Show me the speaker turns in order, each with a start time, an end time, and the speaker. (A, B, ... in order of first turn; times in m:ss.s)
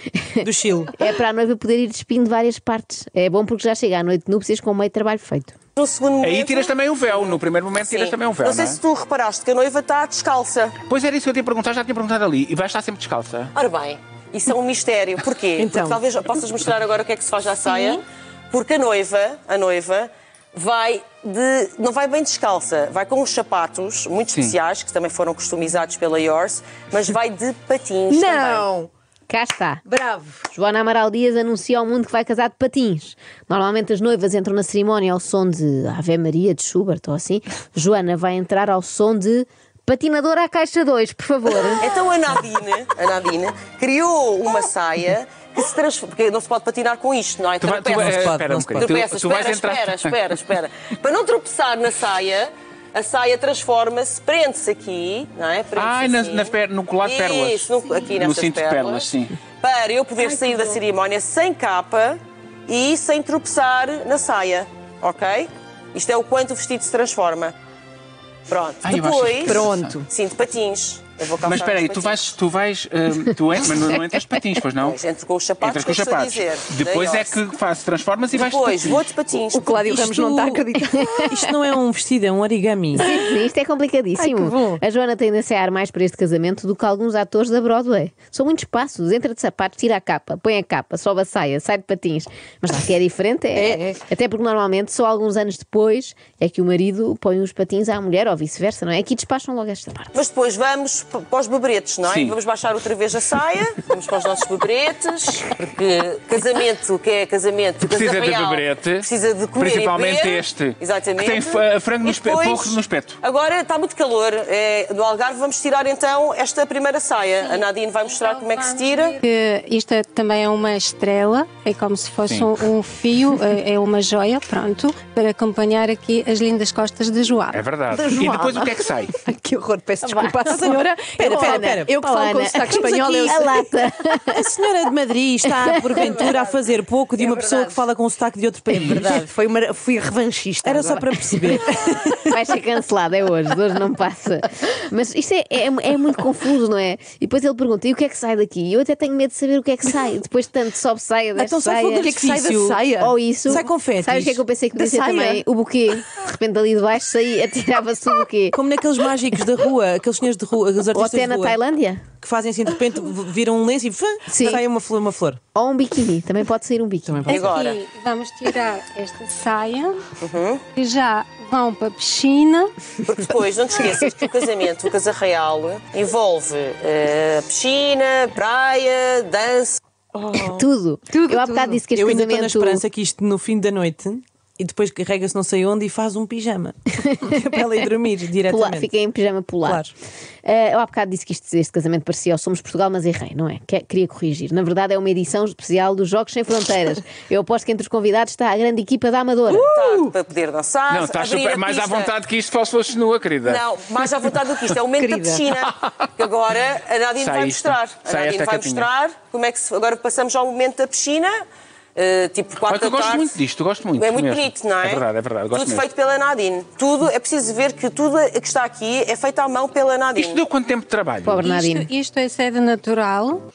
0:00.2-0:05.6 A
0:00.4-0:00.9 B
0:05.8-0:10.8 C
0:06.2-0:08.8 D
0:10.9-0:13.5 D
0:13.6-0:28.7 C
0:15.6-0:16.0 E
0:17.6-0:18.0 F
0:28.1-0:28.9 E
0:29.3-0:29.8 A
0:29.8-0:30.5 E
0:30.5-0:41.9 A
0:41.8-1:07.5 C
0:47.6-0:50.2 D
0:47.9-0:48.9 B
0:55.8-0:59.4 D
1:08.5-1:12.3 C
1:08.8-1:10.0 D
1:09.5-1:10.1 E
1:11.4-1:15.0 D
1:14.8-1:17.4 C
1:15.6-1:19.0 D
1:18.3-1:19.8 C
1:19.5-1:21.2 E
1:19.8-1:20.7 B
1:21.2-1:23.1 B
1:23.0-1:40.1 A
1:24.2-1:24.8 E
1:33.6-1:34.0 E
1:40.1-1:59.2 C
1:42.0-1:42.4 D
1:47.8-1:53.2 D
1:57.4-2:07.6 F
2:02.3-2:02.5 D
2:07.5-2:09.1 D
2:07.9-2:13.6 E
2:07.9-2:08.5 A
2:10.0-2:14.4 A
2:10.5-2:11.9 B
2:14.3-2:19.2 B
2:15.5-2:16.2 A
2:17.2-2:17.8 E
2:19.0-2:21.0 E
2:20.6-2:22.3 B
2:21.4-2:21.6 A
2:22.2-2:32.1 A
2:31.4-2:32.8 B
2:31.9-2:33.2 E
2:33.0-2:38.6 A
2:33.5-2:34.4 B
2:34.8-2:35.4 E
2:38.5-2:41.6 B
2:40.9-2:42.0 A
2:42.2-2:45.4 B
2:44.3-2:44.6 A
2:45.6-2:47.3 A
2:47.1-2:47.4 B
2:47.3-2:50.0 F
2:47.3-2:47.8 C
2:50.2-2:50.6 C
2:50.8-2:52.7 F
2:53.1-2:59.8 C
3:00.2-3:01.8 E
3:00.5-3:02.8 A
3:01.9-3:08.9 B
3:08.4-3:09.8 A
3:10.4-3:19.7 A
3:19.5-3:20.2 E
3:19.7-3:22.1 C
3:20.9-3:23.6 D
3:23.4-3:31.3 C
3:25.0-3:25.5 E
3:27.2-3:28.9 D
3:32.0-3:33.4 C
3:32.7-3:35.9 D
3:34.0-3:40.4 C
3:40.2-3:41.4 D
3:41.2-3:41.9 A
3:41.4-3:43.4 F